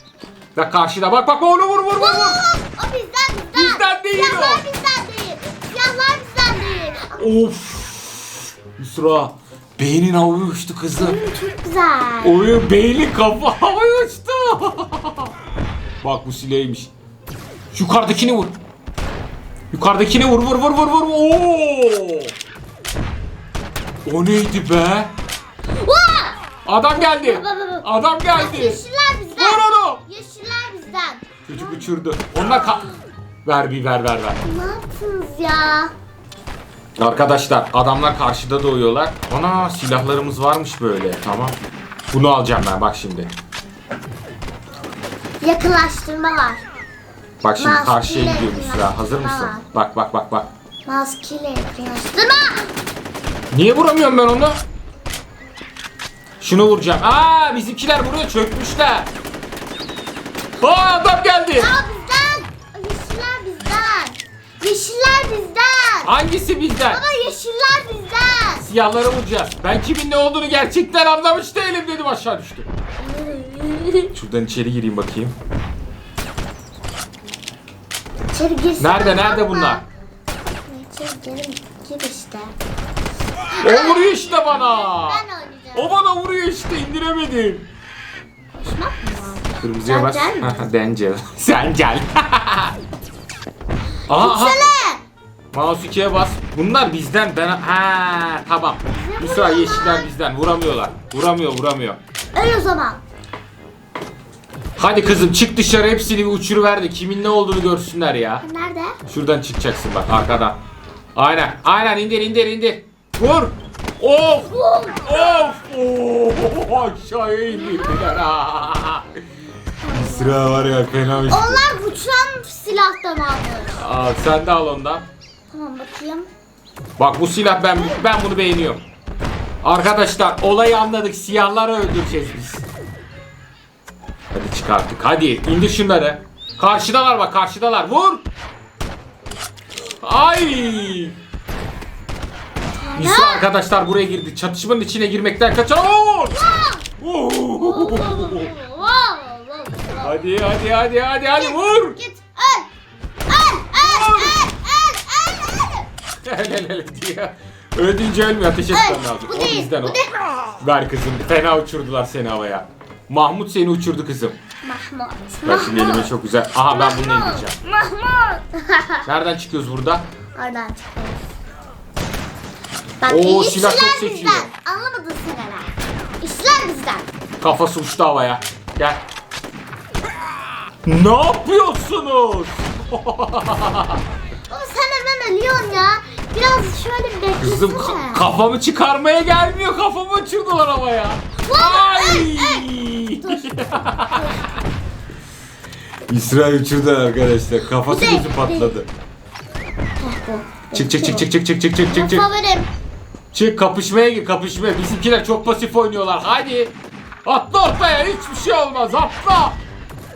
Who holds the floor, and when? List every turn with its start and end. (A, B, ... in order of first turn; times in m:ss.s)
0:00.6-0:02.4 A
0:02.0-0:07.3 B
0:03.6-0:04.6 A
0:07.2-0:11.2 A
0:11.0-0:12.4 B
0:12.2-0:15.3 A
0:16.0-0:16.9 A
0:17.7-0:18.6 A
0:19.7-0:22.3 A
0:24.1-0:25.1 A
0:25.7-0:26.4 B
0:26.7-0:28.8 A
0:27.0-0:33.0 B
0:29.4-0:30.0 A
0:31.5-0:32.9 A
0:33.4-0:34.4 A
0:34.4-0:35.9 B
0:37.0-0:41.6 A
0:42.1-0:43.3 A
0:45.4-0:46.6 B
0:47.4-0:50.5 A
0:47.6-0:49.6 B
0:50.9-0:52.7 B
0:53.5-0:54.6 A
0:56.4-0:59.1 A
1:00.6-1:01.7 A
1:01.5-1:06.1 B
1:06.0-1:07.0 A
1:06.9-1:08.7 B
1:08.6-1:12.7 A
1:13.0-1:14.1 B
1:14.1-1:15.4 A
1:18.3-1:19.8 B
1:18.8-1:19.8 A
1:20.7-1:22.6 B
1:23.5-1:26.0 B
1:23.6-1:25.2 A
1:25.7-1:27.7 A
1:28.6-1:30.6 B
1:29.6-1:32.8 A
1:34.1-1:34.7 A
1:34.1-1:35.0 B
1:35.5-1:42.0 A
1:38.9-1:40.1 B
1:42.4-1:43.0 B
1:44.8-1:48.4 A
1:48.4-1:49.0 B
1:49.1-1:50.6 A
1:51.2-1:59.2 A
1:54.5-1:55.3 B
1:57.6-1:58.2 B
1:59.8-2:03.8 B
1:59.9-2:01.8 A
2:03.8-2:05.1 A
2:05.5-2:06.3 B
2:07.0-2:08.8 A
2:09.6-2:12.7 A
2:14.3-2:18.2 A
2:20.0-2:21.2 A
2:22.8-2:23.5 B
2:23.0-2:26.4 A
2:26.3-2:26.9 B
2:27.0-2:28.5 A
2:27.6-2:30.2 B
2:30.0-2:32.0 A
2:31.3-2:32.7 B
2:33.3-2:35.9 B
2:33.8-2:34.4 A
2:36.2-2:40.0 A
2:38.7-2:40.5 B
2:40.6-2:44.4 A
2:44.6-2:49.1 B
2:45.4-2:47.6 A
2:49.0-2:50.1 A
2:50.4-2:51.3 B
2:53.0-2:57.1 B
2:53.0-2:54.5 A
2:57.4-2:59.0 A
3:00.8-3:04.0 A
3:04.5-3:08.2 B
3:07.4-3:14.2 A
3:11.4-3:14.5 B
3:16.1-3:18.9 A
3:17.8-3:18.8 B
3:20.0-3:21.3 B
3:20.7-3:22.3 A
3:21.9-3:22.7 B
3:23.3-3:26.7 A
3:27.2-3:29.6 A